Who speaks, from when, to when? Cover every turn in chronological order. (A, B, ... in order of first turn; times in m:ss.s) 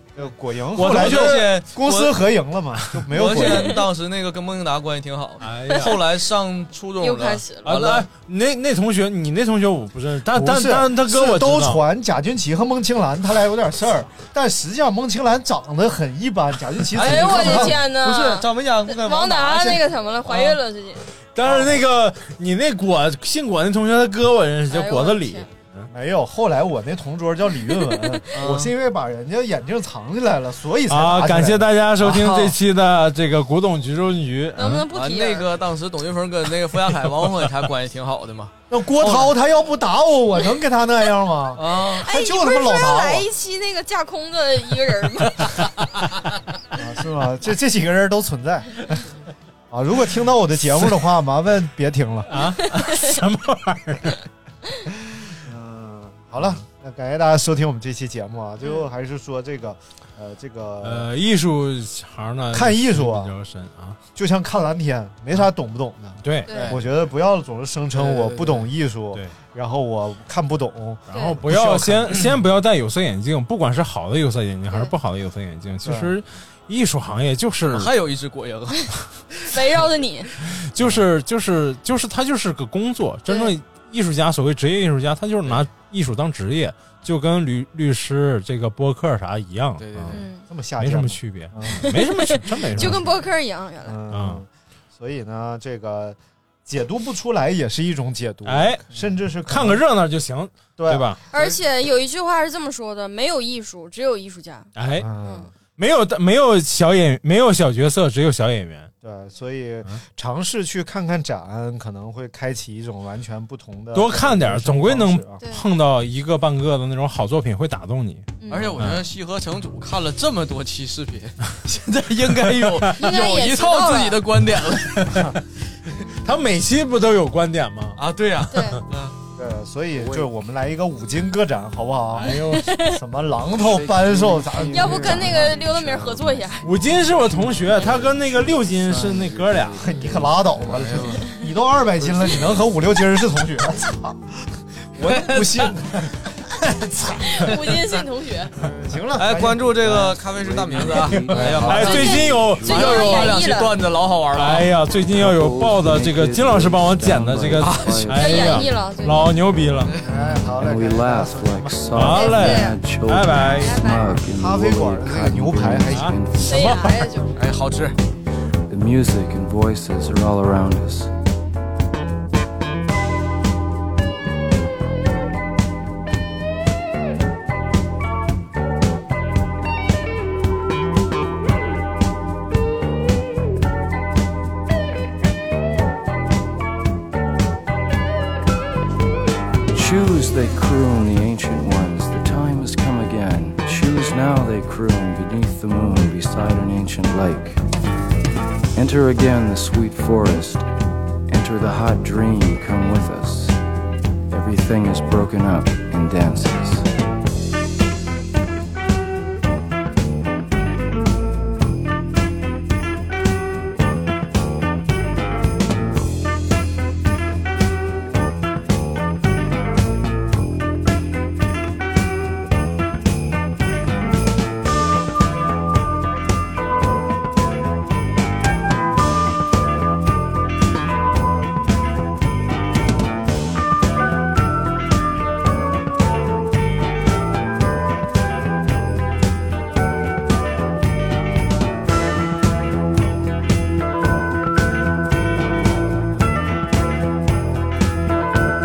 0:00.2-0:03.8 A
0:00.8-0:01.5 B
0:00.8-0:02.3 C
0:03.1-0:08.1 C
0:05.4-0:06.0 B
0:07.0-0:07.8 D
0:07.6-0:11.8 B
0:10.3-0:17.8 A
0:16.9-0:20.5 C
0:17.0-0:21.0 D
0:21.4-0:25.9 B
0:24.7-0:25.5 D
0:25.9-0:31.7 A
0:28.3-0:28.7 C
0:30.9-0:34.9 B
0:32.0-0:32.6 C
0:34.6-0:35.5 D
0:34.9-0:39.3 C
0:38.7-0:43.3 A
0:41.6-0:42.1 C
0:42.0-0:45.5 D
0:45.4-0:46.0 C
0:46.8-0:49.0 A
0:49.7-0:52.3 A
0:52.3-0:54.2 B
0:52.9-0:53.2 D
0:55.4-1:01.1 A
1:00.8-1:04.0 B
1:02.5-1:03.3 A
1:04.2-1:12.1 A
1:06.2-1:06.6 B
1:06.5-1:06.8 D
1:06.5-1:06.8 C
1:07.9-1:08.7 C
1:11.1-1:11.4 D
1:11.1-1:17.9 B
1:15.8-1:16.2 A
1:17.7-1:19.5 C
1:19.5-1:20.3 D
1:20.5-1:30.2 B
1:29.8-1:30.2 C
1:30.1-1:30.4 D
1:30.5-1:31.9 A
1:30.8-1:33.1 B
1:31.9-1:34.0 D
1:32.8-1:33.1 A
1:33.8-1:39.8 A
1:34.1-1:34.4 B
1:38.4-1:38.8 B
1:39.4-1:41.2 B
1:40.8-1:41.2 A
1:41.3-1:44.7 D
1:44.8-1:45.1 B
1:45.0-1:45.5 A
1:45.2-1:45.5 D
1:45.7-1:48.9 B
1:49.0-1:55.4 A
1:53.9-1:59.0 B
1:55.4-1:55.7 D
1:58.4-1:58.7 D
1:58.5-2:05.1 C
2:02.5-2:02.9 B
2:03.0-2:04.2 D
2:04.9-2:05.3 B
2:06.2-2:08.0 B
2:08.0-2:09.2 C
2:08.5-2:08.8 D
2:09.4-2:16.2 A
2:10.0-2:10.3 E
2:12.1-2:12.8 B
2:12.5-2:13.0 D
2:13.6-2:16.2 E
2:14.7-2:16.7 D
2:16.6-2:19.8 B
2:17.8-2:21.1 E
2:19.8-2:24.2 A
2:20.6-2:21.2 C
2:25.0-2:27.4 A
2:25.1-2:25.7 C
2:27.2-2:28.5 D
2:28.6-2:31.8 A
2:29.2-2:34.7 C
2:31.6-2:33.3 B
2:31.7-2:33.7 D
2:32.3-2:33.0 E
2:34.4-2:40.0 B
2:35.1-2:38.7 E
2:37.6-2:38.0 C
2:38.1-2:39.3 D
2:40.0-2:42.0 A
2:40.6-2:46.7 E
2:41.9-2:43.8 B
2:42.1-2:42.8 D
2:43.6-2:44.2 D
2:44.3-2:46.2 A
2:45.9-2:47.0 B
2:46.4-2:47.4 D
2:47.4-2:48.0 C
2:48.7-2:51.1 E
3:09.7-3:17.6 E
3:18.8-3:20.7 E
3:21.3-3:23.6 E
3:24.3-3:26.9 E